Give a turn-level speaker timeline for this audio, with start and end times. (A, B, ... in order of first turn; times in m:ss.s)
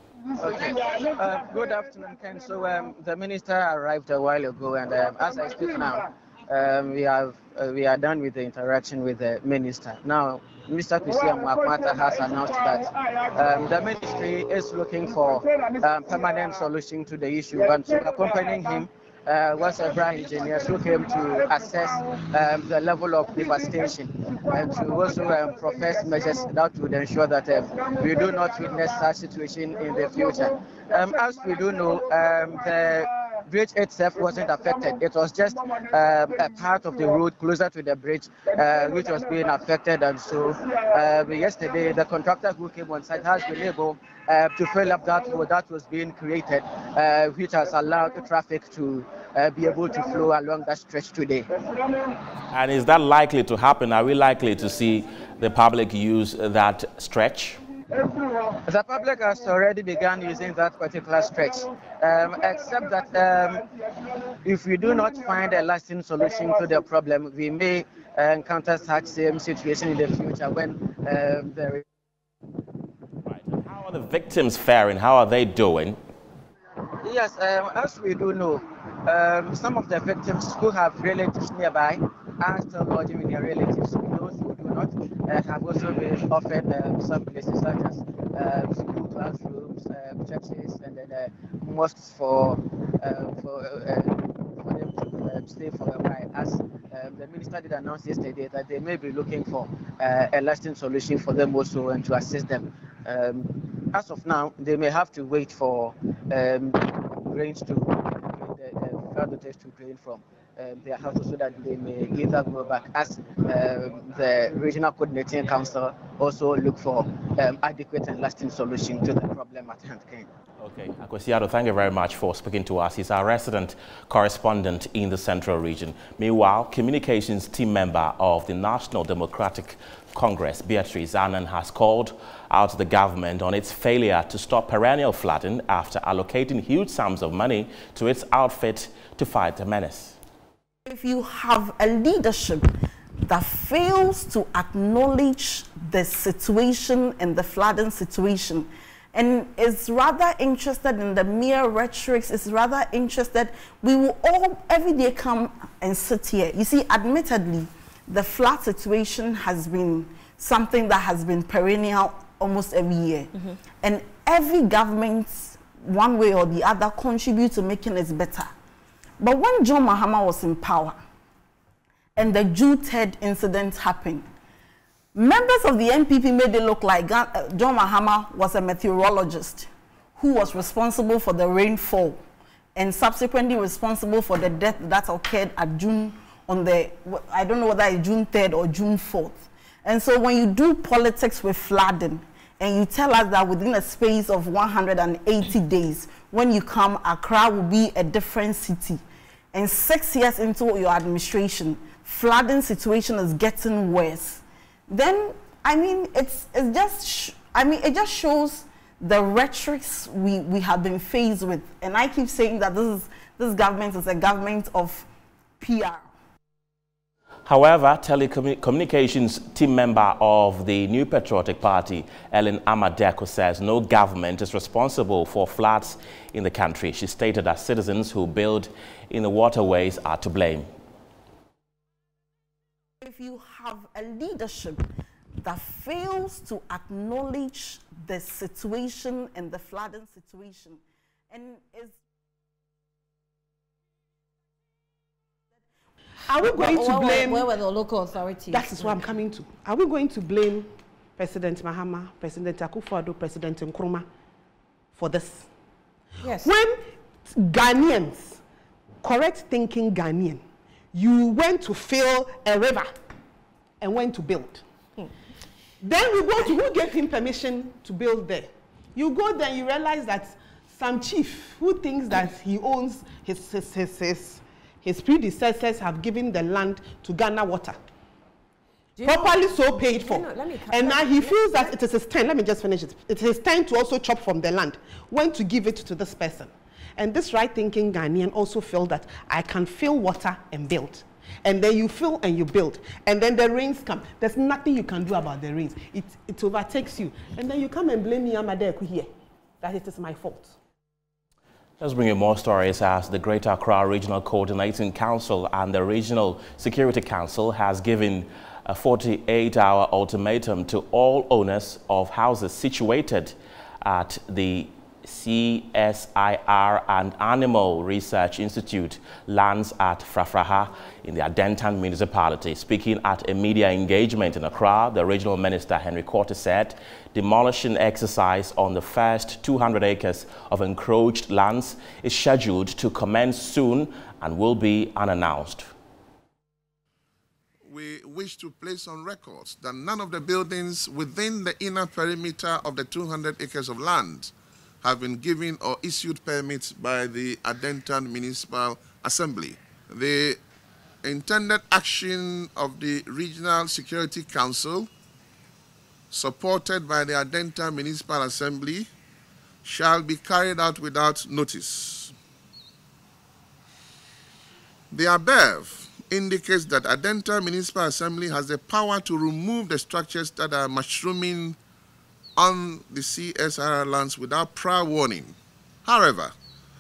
0:00.4-0:51.5 A
0:52.5-0:57.6 B
0:58.6-1:03.6 A
1:04.4-1:11.8 A
1:13.3-1:16.0 B
1:17.0-2:00.3 A
2:00.6-2:20.2 B
2:20.8-2:22.7 C
2:23.3-2:48.5 C
2:49.2-2:51.0 C
2:52.2-2:54.3 C
2:55.2-3:02.2 C
3:02.8-3:19.0 C
3:19.5-3:35.1 C
3:35.6-3:36.1 C
3:37.5-3:50.7 B
3:53.0-3:54.8 C
3:55.4-4:02.0 C
4:06.3-4:07.5 D
4:06.3-4:09.1 E
4:08.5-4:14.1 D
4:15.0-4:15.5 D
4:16.2-4:16.5 E
4:16.2-4:18.4 D
4:19.0-4:22.9 D
4:23.8-4:24.6 D
4:25.8-4:37.9 D
4:39.0-4:41.8 E
4:39.0-4:59.1 D
4:59.6-5:00.5 D
5:01.8-5:35.7 B
5:37.6-5:50.4 F
5:51.0-5:54.9 F
5:56.1-5:58.9 F
5:59.6-6:02.2 F
6:04.9-6:11.6 F
6:12.4-6:16.4 F